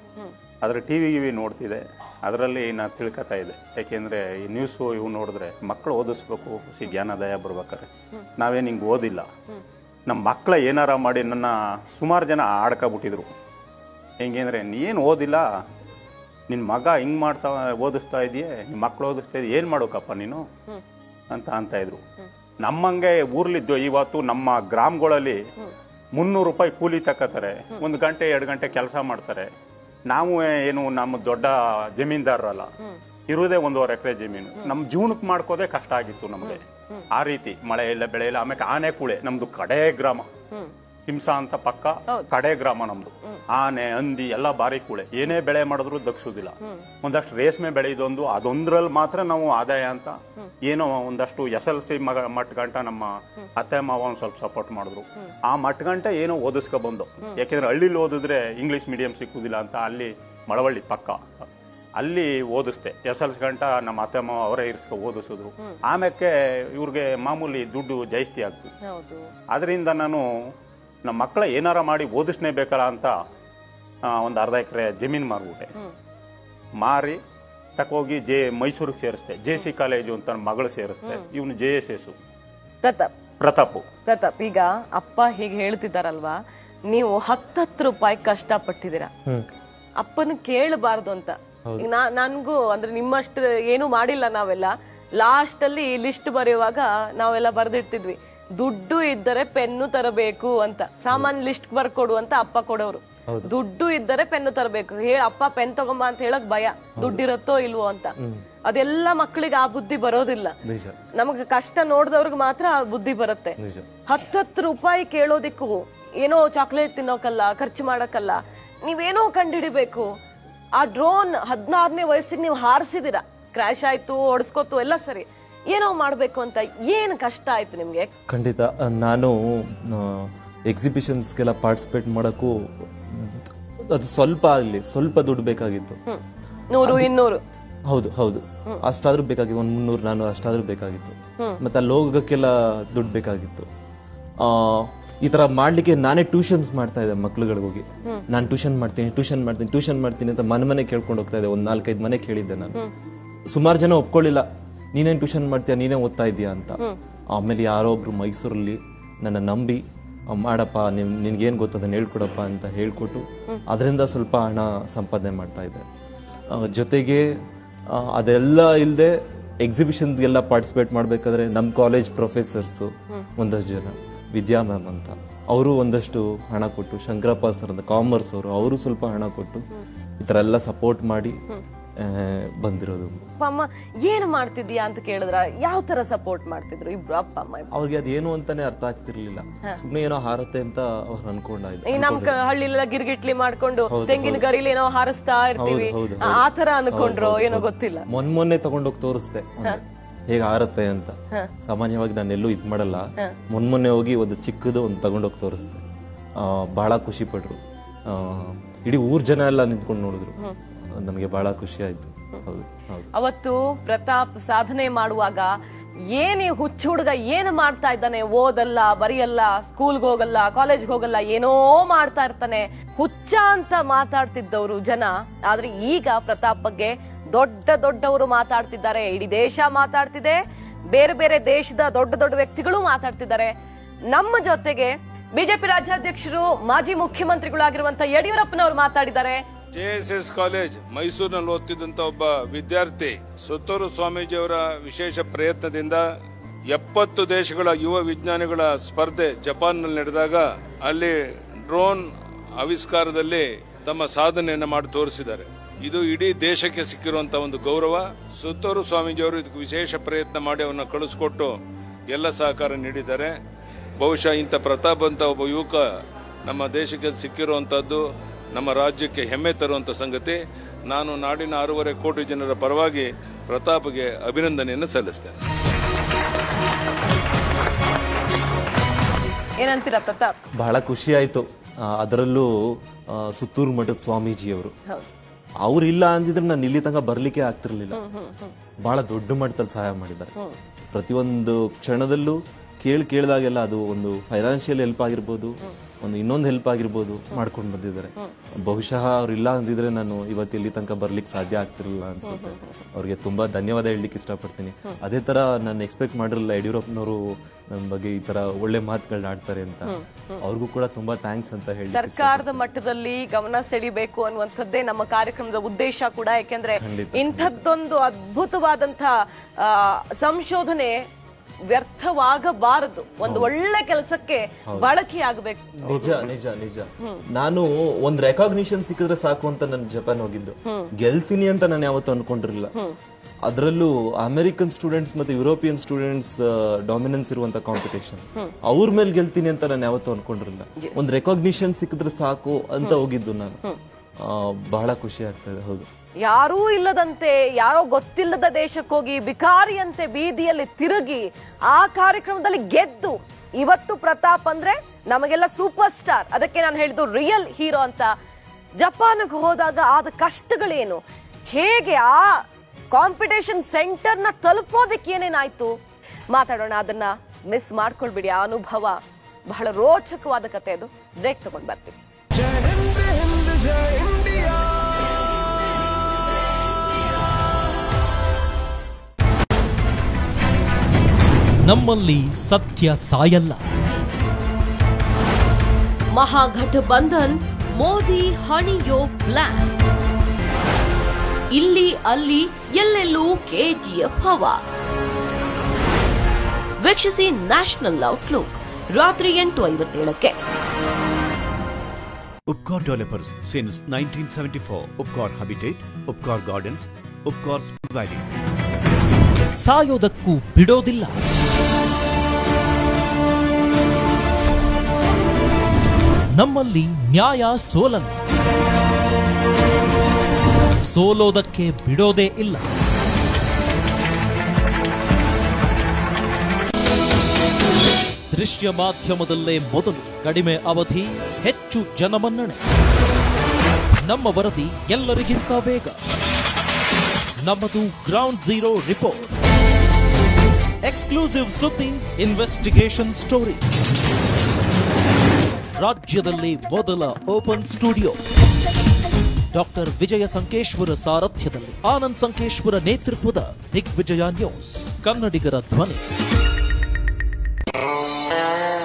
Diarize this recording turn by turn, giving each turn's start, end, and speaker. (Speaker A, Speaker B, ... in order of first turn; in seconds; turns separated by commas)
Speaker A: 0.6-7.9, Speaker A: 8.4-9.3, Speaker A: 10.1-13.3, Speaker A: 14.2-15.4, Speaker A: 16.5-20.4, Speaker A: 21.3-22.0, Speaker A: 22.6-25.4, Speaker A: 26.2-29.5, Speaker A: 30.1-32.7, Speaker A: 33.3-40.3, Speaker B: 36.4-37.0, Speaker A: 41.1-61.4, Speaker A: 62.0-68.7, Speaker B: 68.8-69.3, Speaker A: 69.5-70.2, Speaker A: 71.1-73.2, Speaker A: 74.1-75.7, Speaker A: 76.8-77.2, Speaker A: 77.8-82.2, Speaker B: 82.8-83.1, Speaker A: 83.4-83.8, Speaker B: 84.1-89.1, Speaker B: 90.0-108.1, Speaker C: 103.3-103.5, Speaker C: 108.2-108.5, Speaker B: 108.7-110.5, Speaker C: 110.6-111.0, Speaker B: 111.2-113.6, Speaker C: 113.6-113.9, Speaker B: 114.1-120.2, Speaker B: 120.8-128.1, Speaker C: 128.3-136.0, Speaker B: 136.7-137.4, Speaker C: 136.8-137.1, Speaker C: 137.9-143.7, Speaker C: 144.4-152.8, Speaker C: 153.5-156.8, Speaker C: 157.3-165.8, Speaker C: 166.5-167.3, Speaker C: 167.9-179.7, Speaker C: 180.2-181.4, Speaker C: 182.0-183.3, Speaker B: 183.4-187.7, Speaker C: 187.7-192.3, Speaker B: 191.9-198.1, Speaker C: 193.9-194.5, Speaker C: 195.6-205.8, Speaker C: 206.4-213.1, Speaker B: 213.1-215.5, Speaker B: 216.1-230.4, Speaker B: 230.9-233.5, Speaker B: 234.1-239.4, Speaker D: 239.7-246.0, Speaker D: 246.7-251.2, Speaker D: 251.7-252.0, Speaker D: 252.6-261.6, Speaker D: 262.1-263.4, Speaker D: 264.0-265.8, Speaker D: 266.5-268.0, Speaker D: 268.5-270.4, Speaker D: 270.9-275.4, Speaker B: 279.6-280.4, Speaker C: 280.6-284.7, Speaker C: 285.6-288.0, Speaker B: 287.9-288.5, Speaker C: 288.8-290.3, Speaker C: 290.9-312.6, Speaker B: 302.3-302.7, Speaker B: 309.9-310.4, Speaker B: 311.9-320.9, Speaker C: 316.8-317.6, Speaker B: 321.7-326.2, Speaker C: 323.2-323.5, Speaker C: 325.8-332.7, Speaker C: 333.4-343.6, Speaker C: 344.2-345.9, Speaker B: 346.2-358.1, Speaker B: 358.8-365.8, Speaker B: 366.3-372.0, Speaker E: 381.6-383.6, Speaker B: 386.1-389.7, Speaker B: 391.5-394.6, Speaker B: 396.8-400.3, Speaker F: 402.5-408.2, Speaker E: 409.6-411.2, Speaker E: 416.4-418.1, Speaker E: 420.9-422.6, Speaker E: 428.3-432.6, Speaker E: 434.0-436.0, Speaker E: 437.4-439.3, Speaker E: 440.9-443.6, Speaker E: 445.8-448.2, Speaker E: 449.5-456.0